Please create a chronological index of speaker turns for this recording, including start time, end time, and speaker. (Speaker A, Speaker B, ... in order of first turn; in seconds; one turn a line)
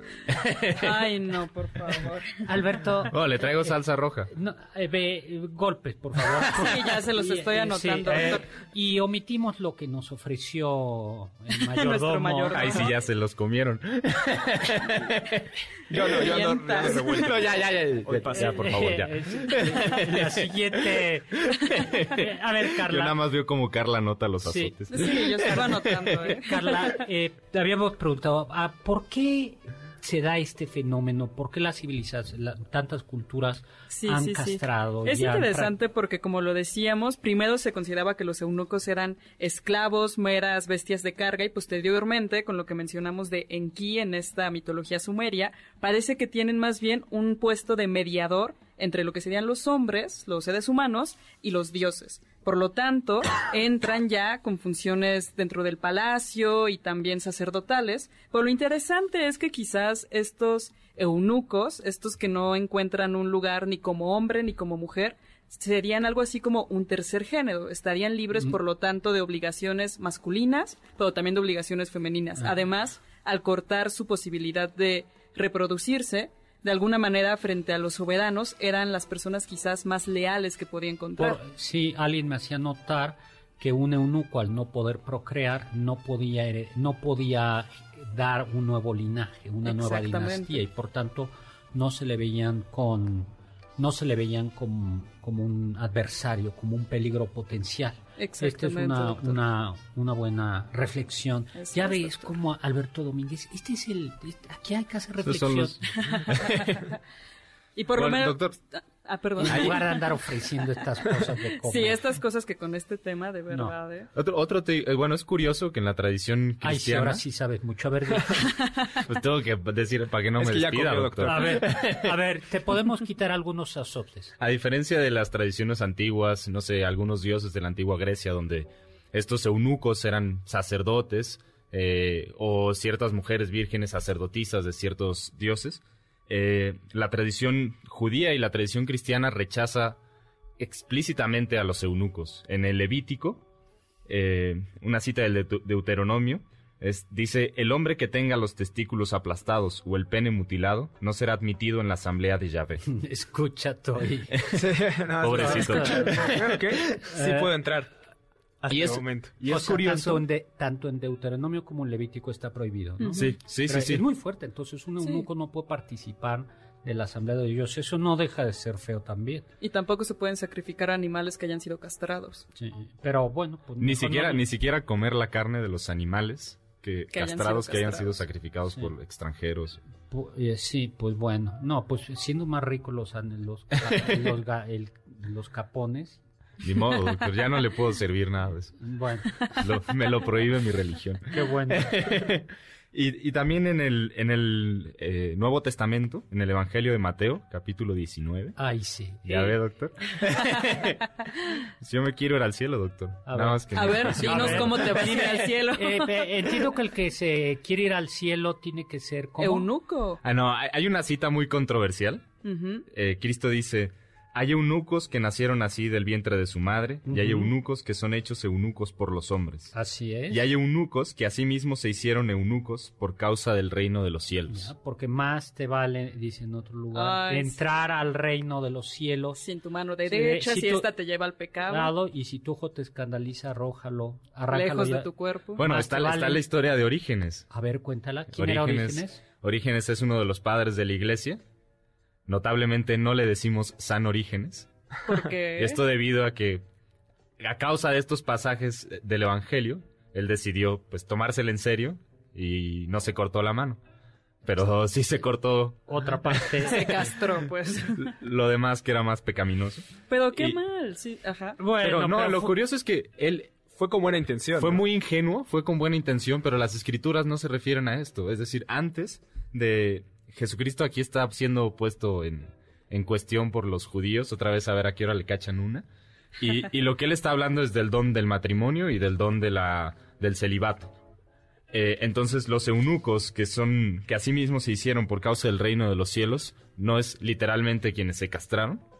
Speaker A: 0.3-0.9
Speaker B: 0.7-2.4
Speaker C: 2.4-3.8
Speaker A: 3.1-4.3
Speaker C: 4.3-12.9
Speaker B: 6.5-8.5
Speaker B: 11.7-12.9
Speaker A: 12.5-25.9
Speaker D: 15.9-18.9
Speaker B: 16.2-17.0
Speaker C: 18.3-23.2
Speaker C: 24.4-35.8
Speaker B: 24.9-27.0
Speaker B: 33.9-81.4
Speaker C: 81.2-105.8
Speaker B: 89.6-90.6
Speaker B: 98.2-99.4
Speaker B: 101.5-102.3
Speaker A: 105.2-106.8
Speaker B: 106.1-106.8
Speaker B: 107.8-110.0
Speaker A: 108.0-108.6
Speaker C: 109.4-112.1
Speaker A: 109.4-109.8
Speaker B: 111.6-114.1
Speaker A: 114.2-117.2
Speaker C: 116.6-118.5
Speaker A: 119.0-122.1
Speaker D: 120.4-121.6
Speaker C: 121.2-124.3
Speaker A: 124.4-140.0
Speaker A: 140.6-143.4
Speaker A: 144.1-152.9
Speaker C: 152.8-154.6
Speaker D: 154.5-157.9
Speaker A: 155.2-157.0
Speaker C: 155.4-156.4
Speaker C: 157.1-157.5
Speaker D: 158.6-159.6
Speaker A: 158.7-160.2
Speaker C: 159.5-169.5
Speaker A: 163.2-164.0
Speaker B: 169.6-172.4
Speaker C: 172.6-174.4
Speaker A: 173.8-179.8
Speaker B: 177.1-178.2
Speaker C: 180.1-186.2
Speaker A: 186.6-188.9
Speaker C: 188.8-189.5
Speaker A: 189.5-198.6
Speaker C: 191.3-192.3
Speaker C: 198.6-199.6
Speaker A: 199.3-201.0
Speaker A: 201.8-205.2
Speaker C: 203.3-209.7
Speaker B: 203.7-206.3
Speaker B: 209.4-210.2
Speaker A: 210.2-212.2
Speaker B: 212.4-212.8
Speaker A: 212.9-219.8
Speaker C: 217.1-217.5
Speaker C: 219.7-220.5
Speaker A: 220.3-224.7
Speaker C: 224.5-229.4
Speaker B: 226.9-227.6
Speaker B: 229.4-231.9
Speaker C: 230.1-230.9
Speaker C: 231.7-236.5
Speaker B: 234.5-235.6
Speaker A: 235.6-237.5
Speaker C: 237.5-239.2
Speaker A: 238.3-241.4
Speaker A: 242.3-244.7
Speaker B: 245.1-245.8
Speaker A: 245.6-246.6
Speaker A: 247.4-253.8
Speaker A: 254.4-256.8
Speaker C: 255.9-257.1
Speaker B: 256.6-258.1
Speaker A: 258.0-260.6
Speaker B: 260.1-261.6
Speaker C: 261.6-262.6
Speaker A: 261.8-263.7
Speaker D: 263.7-264.8
Speaker A: 264.6-275.9
Speaker A: 276.4-280.9
Speaker A: 281.7-288.8